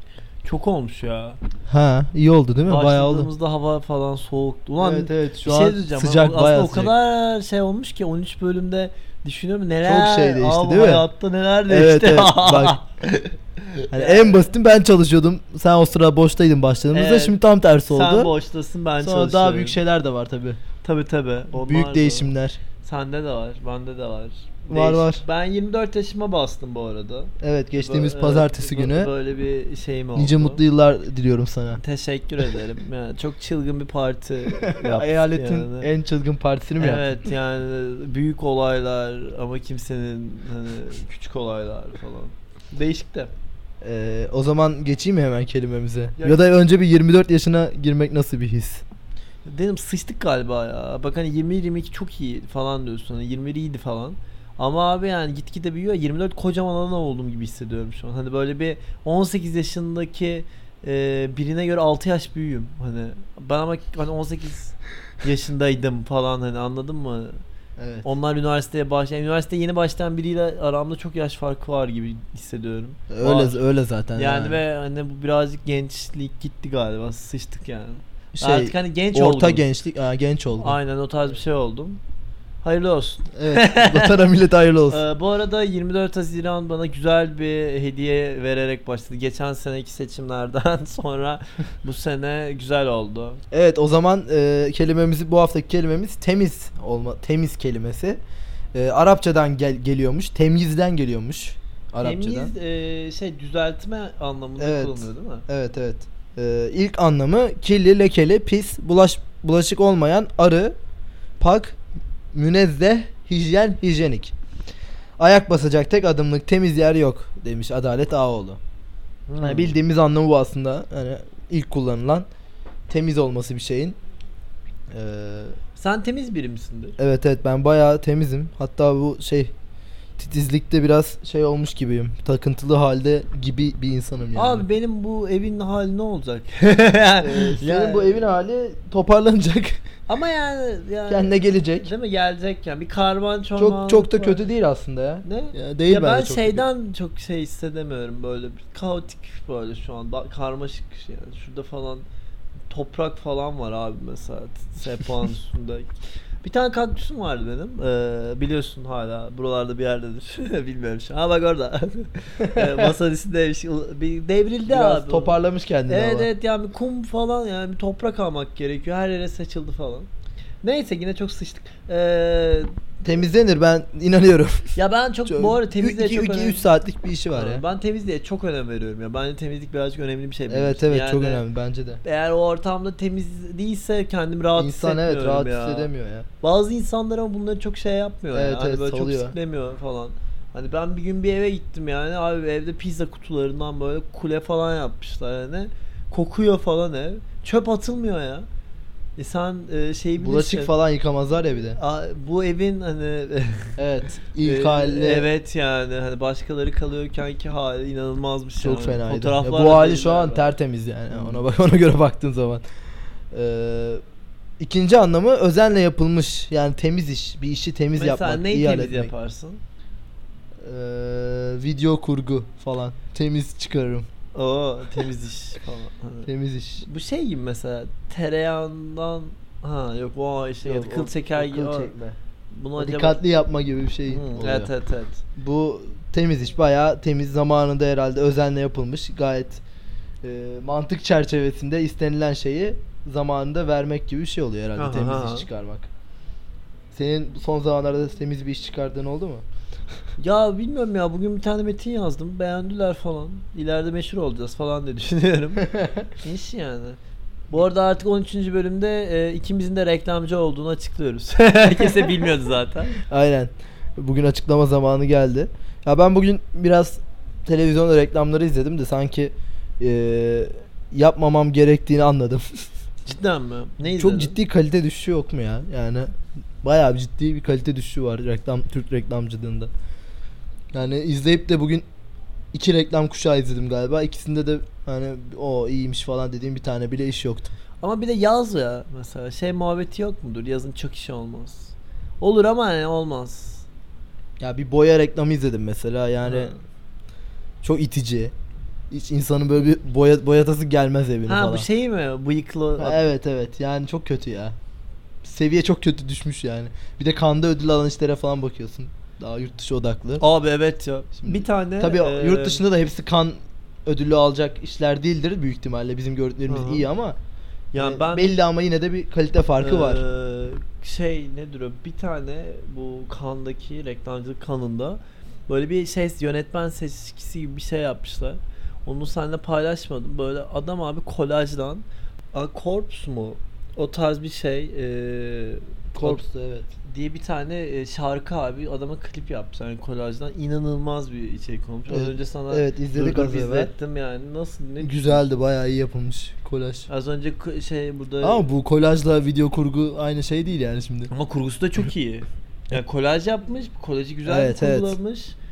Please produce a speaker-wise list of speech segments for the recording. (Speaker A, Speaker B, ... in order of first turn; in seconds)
Speaker A: 0.4-1.4, 2.7-14.5, 16.9-19.8, 20.8-30.6, 31.7-35.9, 36.8-43.3, 46.2-46.4, 49.5-67.4, 68.0-73.6, 74.2-79.6, 80.6-82.0, 82.6-84.2, 84.9-93.4, 102.0-105.4, 119.3-119.8, 125.8-127.0, 134.3-138.3, 140.1-144.4, 145.2-152.1, 152.7-155.9, 156.4-165.4, 165.9-170.1, 170.6-172.7, 174.8-176.6, 177.3-181.4, 182.0-185.9, 186.4-198.4, 199.2-200.7, 201.7-203.8, 204.4-210.5, 211.1-211.4, 217.9-219.6, 224.3-226.3, 226.8-231.9, 232.5-233.2, 234.1-235.2, 244.8-245.5, 250.2-257.0, 257.5-262.9, 273.1-274.3, 287.8-293.7, 296.2-296.6, 301.3-303.1, 310.2-312.6, 316.5-316.9, 317.7-318.3, 319.6-336.2, 336.9-345.2, 346.9-348.4, 351.1-355.4
Speaker B: 1.7-3.3, 4.8-6.9, 9.8-11.1, 11.7-12.8, 13.9-18.3, 19.0-20.6, 21.5-22.6, 24.7-25.2, 27.4-29.1, 30.1-31.8, 34.5-37.3, 43.8-48.8, 67.8-68.1, 73.1-74.6, 78.3-80.8, 83.3-85.0, 93.5-98.2, 98.7-102.5, 104.6-110.7, 111.4-111.8, 112.3-114.3, 115.2-118.6, 119.4-122.2, 122.9-124.0, 124.9-125.5, 127.0-129.5, 130.2-134.7, 137.2-139.8, 141.1-141.9, 143.6-146.6, 162.4-162.9, 164.7-166.3, 173.0-177.6, 180.5-182.0, 184.6-186.3, 188.3-189.3, 200.2-201.8, 203.8-205.3, 208.6-212.6, 213.3-214.0, 214.6-219.1, 220.6-224.1, 226.2-226.8, 230.6-232.2, 232.8-234.7, 235.4-239.6, 240.2-245.9, 246.9-249.4, 255.6-256.0, 261.6-262.3, 263.0-272.6, 273.8-276.1, 276.6-279.7, 280.7-281.8, 282.5-287.5, 294.4-296.5, 297.6-298.3, 298.9-301.7, 302.8-304.5, 305.2-310.2, 311.2-317.2, 317.8-320.0, 335.9-336.7, 341.9-343.7, 344.8-346.9, 348.2-351.1, 354.2-354.9